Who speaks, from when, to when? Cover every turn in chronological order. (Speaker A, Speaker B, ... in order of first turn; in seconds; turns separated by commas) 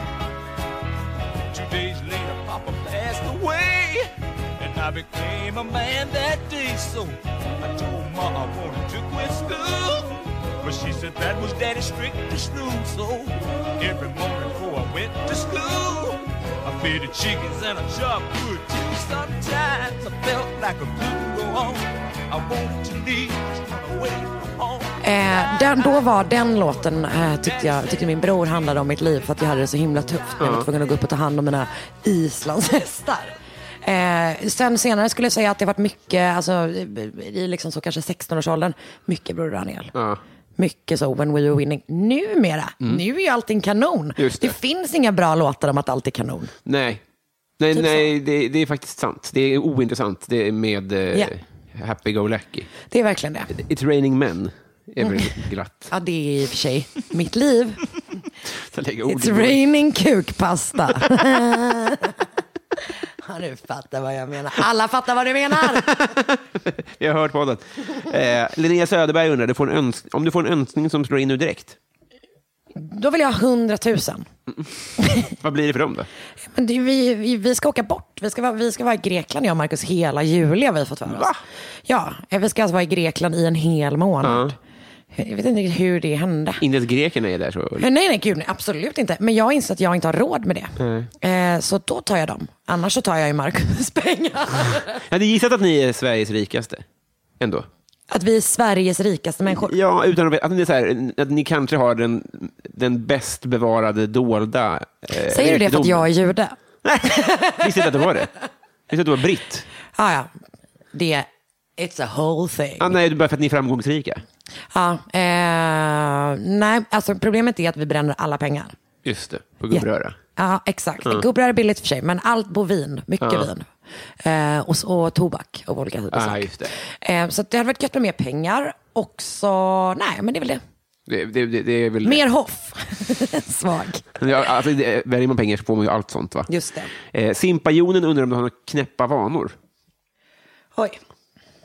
Speaker A: 1.5-25.0, Speaker B: 25.0-39.9, Speaker A: 27.4-27.8, Speaker C: 30.4-30.7, Speaker C: 39.9-40.2, Speaker B: 40.6-46.5, Speaker C: 44.2-44.5, Speaker C: 46.6-47.0, Speaker C: 47.6-52.7, Speaker B: 47.7-48.1, Speaker B: 52.9-53.5, Speaker C: 53.5-55.9, Speaker B: 55.9-57.8, Speaker C: 58.7-59.6, Speaker B: 59.1-62.2, Speaker B: 63.2-66.2, Speaker C: 65.9-71.8, Speaker B: 72.8-74.3, Speaker B: 75.0-75.3, Speaker C: 75.2-76.1, Speaker B: 76.5-81.3, Speaker C: 81.1-81.4, Speaker B: 81.9-84.5, Speaker C: 84.2-84.5, Speaker B: 85.1-86.6, Speaker C: 86.6-87.9, Speaker B: 87.8-95.0, Speaker C: 90.8-91.1, Speaker C: 95.1-96.8, Speaker C: 97.4-97.7, Speaker B: 98.1-99.7, Speaker C: 99.5-106.0, Speaker B: 105.3-106.5, Speaker C: 106.8-108.3, Speaker B: 107.1-107.9, Speaker C: 108.9-109.7, Speaker B: 110.0-110.3, Speaker B: 110.9-111.3, Speaker B: 111.8-112.9, Speaker C: 112.8-114.2, Speaker B: 114.7-118.7, Speaker C: 119.0-120.2, Speaker B: 119.7-123.7, Speaker C: 123.2-123.5, Speaker B: 124.2-130.6, Speaker C: 126.1-126.7, Speaker C: 131.1-132.2, Speaker B: 132.0-134.0, Speaker C: 134.2-136.5, Speaker B: 136.5-136.9, Speaker C: 137.0-139.5